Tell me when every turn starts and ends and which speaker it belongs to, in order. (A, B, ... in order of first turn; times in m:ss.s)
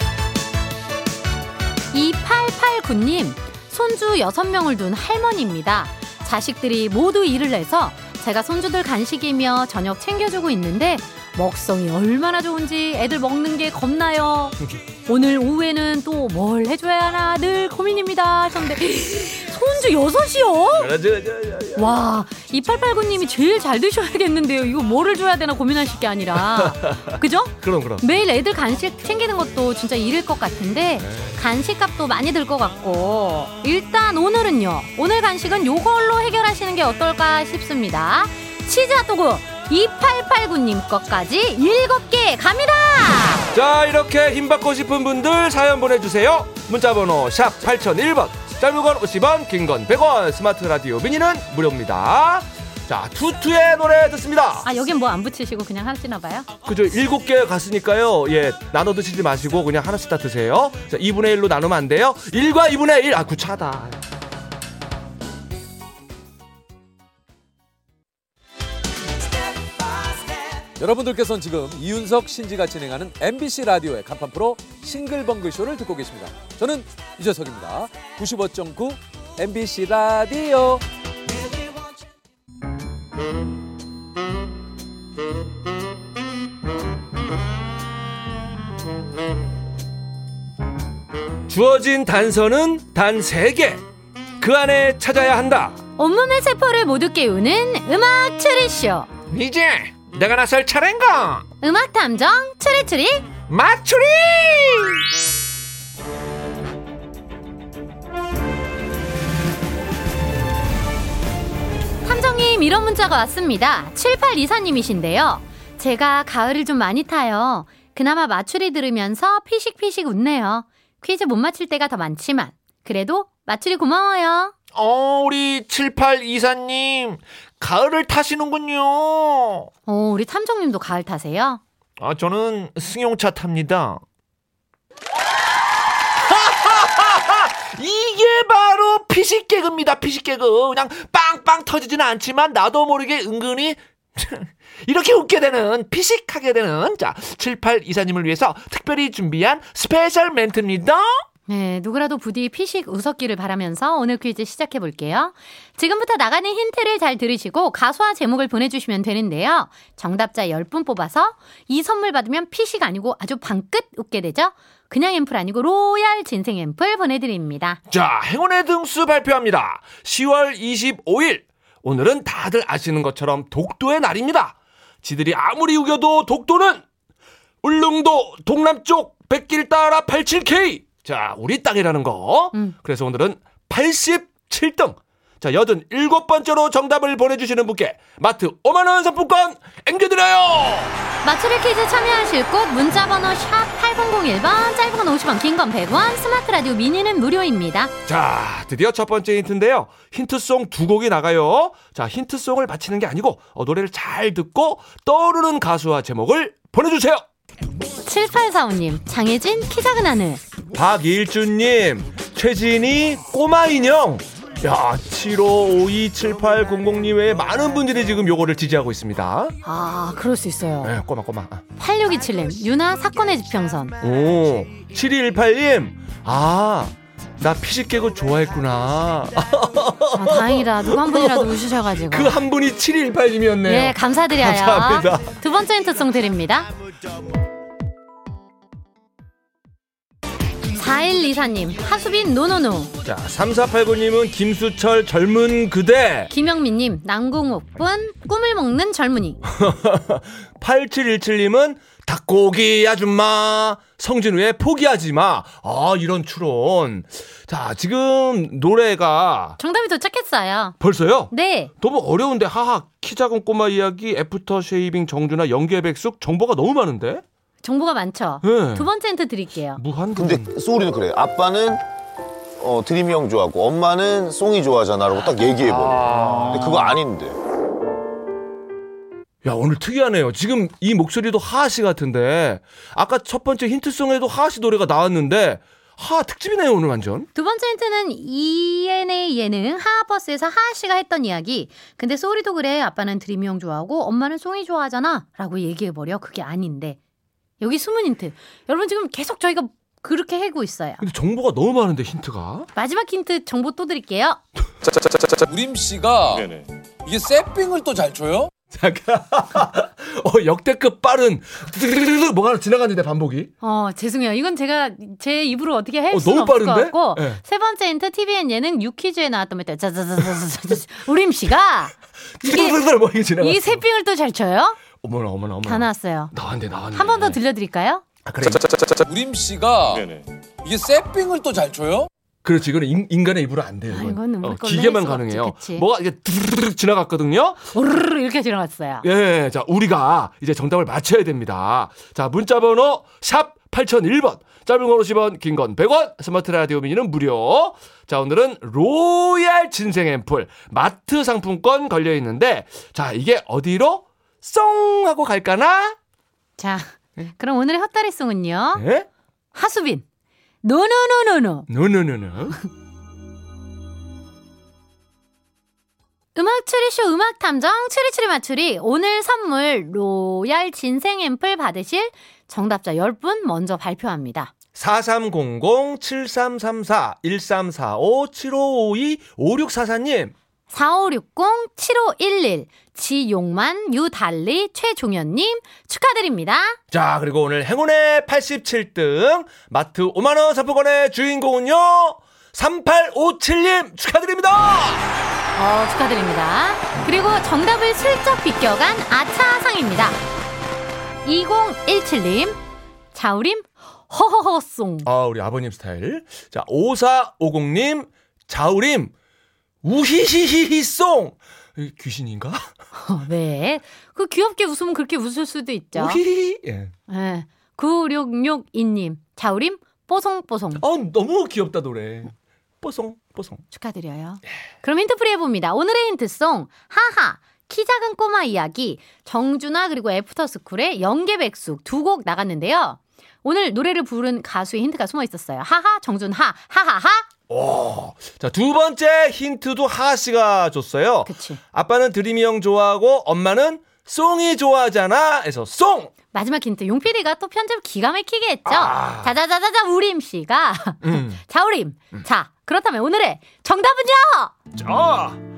0:01.9-0:20.9 A
0:20.8-0:22.0 B
0:21.8-0:43.5 A
0:26.5-0:28.0 B
0:31.0-0:31.4 B
0:43.5-0:54.7 B
0:54.6-0:56.5 A
0:56.7-1:04.0 B
1:10.8-1:20.8 C
1:31.5-1:33.8 B
1:34.4-1:35.8 B
1:36.0-1:39.1 A
1:39.3-1:41.4 B
1:41.6-1:43.3 A
1:43.5-1:45.0 B
1:52.0-2:04.6 A
2:04.8-2:09.7 B
2:09.9-2:11.6 A
2:12.0-2:14.0 B
2:16.2-2:31.1 B
2:31.5-2:47.8 A
2:47.9-2:56.8 B
2:57.6-3:11.0 B
3:11.2-3:17.9 A
3:18.1-3:27.2 B
3:28.0-3:30.4 A
3:30.7-3:39.6 B
3:39.6-3:40.9 A
3:40.8-3:41.6 B
3:41.8-3:44.0 A
3:44.0-3:51.6 B
3:50.2-3:52.4 A
3:52.1-3:55.3 B
3:53.7-3:56.7 A
4:00.7-4:02.9 A
4:03.0-4:06.3 B
4:06.3-4:09.4 A
4:09.5-4:19.6 B
4:19.6-4:20.8 A
4:20.8-4:27.2 B
4:21.3-4:21.7 A
4:27.6-4:29.8 A
4:28.4-4:28.9 B
4:29.8-4:30.5 B
4:30.2-4:31.8 D
4:32.6-4:37.4 D
4:35.5-4:37.0 B
4:39.4-4:47.3 B
4:47.4-4:57.0 A
4:57.6-5:01.0 A
5:01.0-5:02.7 B
5:02.8-5:04.4 A
5:05.4-5:08.5 C
5:08.7-5:13.5 B
5:13.6-5:22.8 A
5:16.1-5:17.4 B
5:22.4-5:23.8 B
5:23.4-5:24.8 A
5:25.0-5:27.4 B
5:25.6-5:26.3 A
5:26.9-5:28.0 A
5:28.2-5:29.0 B
5:29.1-5:32.1 C
5:32.4-5:37.6 B
5:33.9-5:35.8 A
5:37.7-5:39.1 A
5:39.0-5:56.0 B
5:56.6-5:58.8 A
5:58.8-5:59.1 B
5:59.5-6:00.0 A
6:00.6-6:01.7 A
6:01.7-6:02.6 B
6:06.4-6:14.5 A
6:14.8-6:20.3 B
6:20.7-6:26.8 A
6:26.9-6:35.1 B
6:35.6-6:40.2 A
6:41.2-6:42.6 A
6:43.1-6:45.1 A
6:45.0-6:49.1 B
6:49.8-6:52.7 B
6:53.0-6:56.2 A
6:56.0-6:56.9 B
6:57.1-7:00.8 A
7:00.8-7:03.6 B
7:03.7-7:17.2 A
7:17.5-7:26.1 B
7:21.3-7:21.6 A
7:26.3-7:34.5 A
7:28.7-7:29.3 B
7:31.0-7:31.4 B
7:34.7-7:35.4 B